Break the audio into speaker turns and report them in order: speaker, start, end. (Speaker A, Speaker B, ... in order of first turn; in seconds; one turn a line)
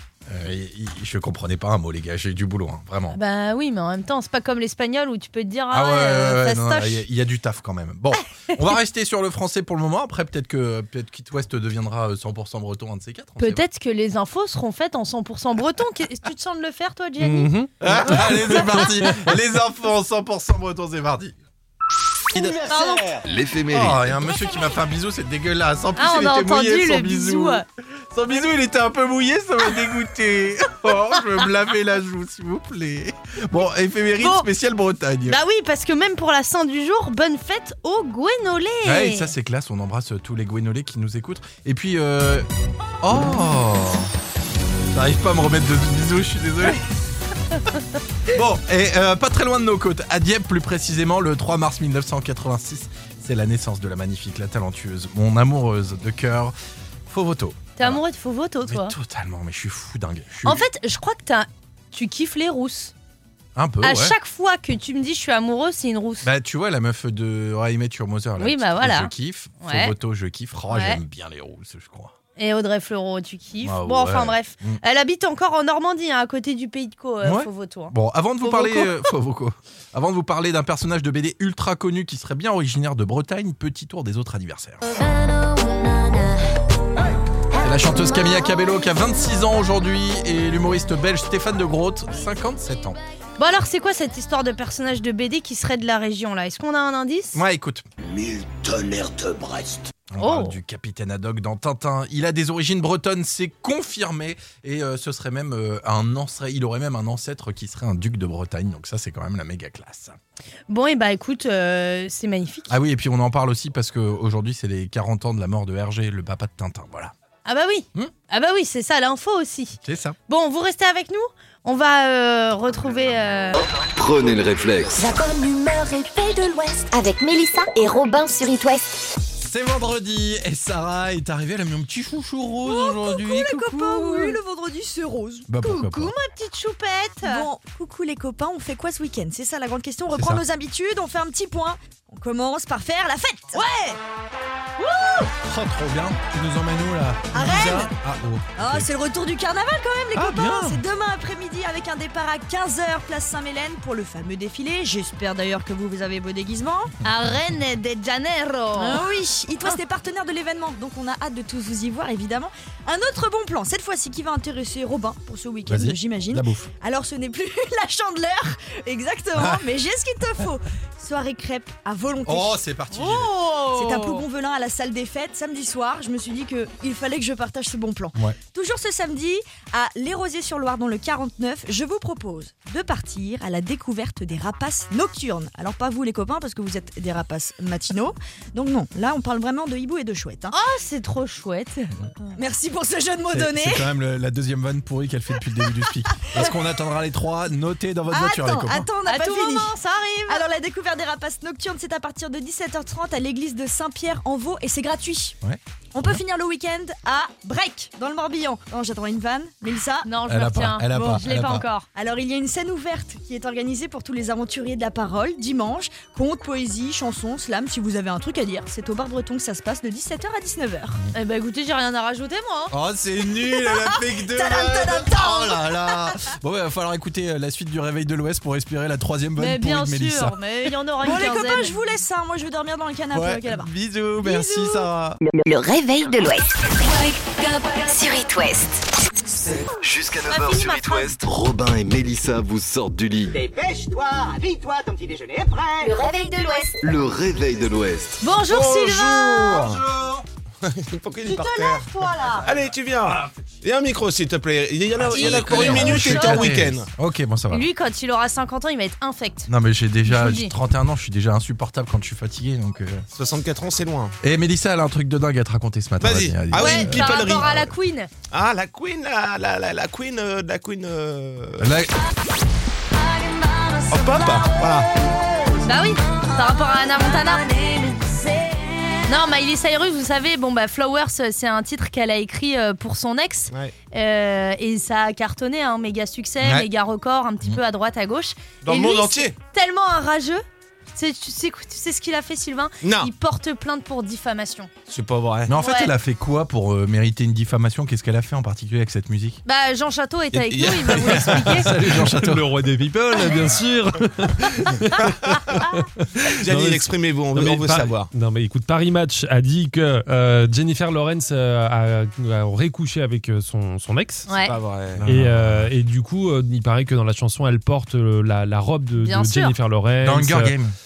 Speaker A: 0.3-3.2
Speaker B: 3.1-7.0
Speaker A: 5.7-13.6
Speaker B: 13.4-17.5
Speaker C: 17.2-18.4
Speaker A: 17.8-21.3
Speaker B: 18.1-18.8
Speaker A: 22.3-23.2
Speaker B: 22.7-23.0
Speaker D: 23.2-24.3
Speaker A: 23.7-35.4
Speaker B: 25.9-27.6
Speaker B: 34.2-34.5
Speaker B: 35.3-39.3
Speaker A: 38.8-42.5
Speaker A: 43.0-44.1
Speaker A: 44.9-46.8
Speaker A: 48.2-56.5
Speaker A: 57.1-58.0
Speaker B: 57.8-58.9
Speaker A: 58.6-60.6
Speaker B: 60.4-62.9
Speaker A: 63.5-64.2
Speaker B: 63.8-66.3
Speaker A: 66.2-72.1
Speaker B: 68.4-69.9
Speaker B: 70.7-71.0
Speaker B: 72.4-79.1
Speaker A: 73.6-74.8
Speaker A: 77.2-84.8
Speaker E: 84.9-86.3
Speaker A: 87.6-93.0
Speaker B: 93.4-97.4
Speaker A: 97.3-97.8
Speaker F: 98.0-100.0
Speaker A: 100.1-110.2
Speaker B: 100.2-100.5
Speaker B: 110.7-112.7
Speaker A: 112.7-117.1
Speaker B: 117.4-123.6
Speaker A: 119.8-120.2
Speaker D: 123.8-125.0
Speaker E: 124.9-129.1
Speaker A: 129.4-134.3
Speaker G: 132.6-135.5
Speaker B: 133.8-134.2
Speaker A: 135.5-136.1
Speaker B: 135.6-137.5
Speaker G: 137.2-143.7
Speaker A: 140.1-140.4
Speaker B: 143.5-144.0
Speaker B: 144.8-145.2
Speaker A: 145.4-148.9
Speaker G: 147.3-147.9
Speaker G: 148.6-156.9
Speaker A: 150.1-150.8
Speaker B: 157.0-159.0
Speaker G: 158.8-172.6
Speaker A: 165.7-166.7
Speaker A: 169.3-169.6
Speaker A: 172.2-173.3
Speaker B: 172.9-174.2
Speaker G: 173.7-190.5
Speaker B: 190.5-191.9
Speaker G: 192.3-193.8
Speaker A: 193.3-198.9
Speaker G: 198.1-199.7
Speaker B: 199.0-200.4
Speaker G: 200.2-205.4
Speaker G: 205.9-210.1
Speaker B: 210.0-211.9
Speaker A: 210.2-211.7
Speaker G: 211.9-221.0
Speaker B: 221.1-222.7
Speaker A: 222.7-230.3
Speaker G: 223.7-226.2
Speaker B: 229.4-231.7
Speaker G: 231.0-233.7
Speaker A: 233.1-235.2
Speaker G: 234.2-234.9
Speaker E: 235.2-238.8
Speaker D: 239.8-243.3
Speaker B: 240.3-241.1
Speaker H: 243.3-245.9
Speaker E: 245.8-246.8
Speaker D: 246.8-248.2
Speaker B: 248.2-249.7
Speaker I: 248.5-249.8
Speaker A: 249.4-250.2
Speaker I: 250.6-256.9
Speaker E: 251.3-252.4
Speaker A: 255.0-257.7
Speaker B: 255.1-256.6
Speaker B: 257.5-259.5
Speaker A: 259.5-263.1
Speaker B: 260.0-260.5
Speaker I: 263.1-264.1
Speaker A: 264.2-267.7
Speaker I: 266.0-267.7
Speaker B: 266.5-268.1
Speaker I: 268.3-271.7
Speaker A: 271.6-271.9
Speaker I: 273.9-274.9
Speaker B: 275.6-277.6
Speaker B: 279.1-294.7
Speaker I: 288.6-289.3
Speaker I: 292.8-293.1
Speaker I: 294.9-295.5
Speaker A: 295.5-299.4
Speaker B: 295.5-295.9
Speaker B: 299.4-301.7
Speaker I: 300.3-301.5
Speaker A: 301.2-302.5
Speaker C: 301.4-314.3
Speaker I: 306.4-308.1
Speaker B: 314.3-314.5
Speaker I: 314.4-315.1
Speaker A: 315.0-315.7
Speaker C: 315.0-320.6
Speaker B: 319.0-319.5
Speaker A: 320.0-320.7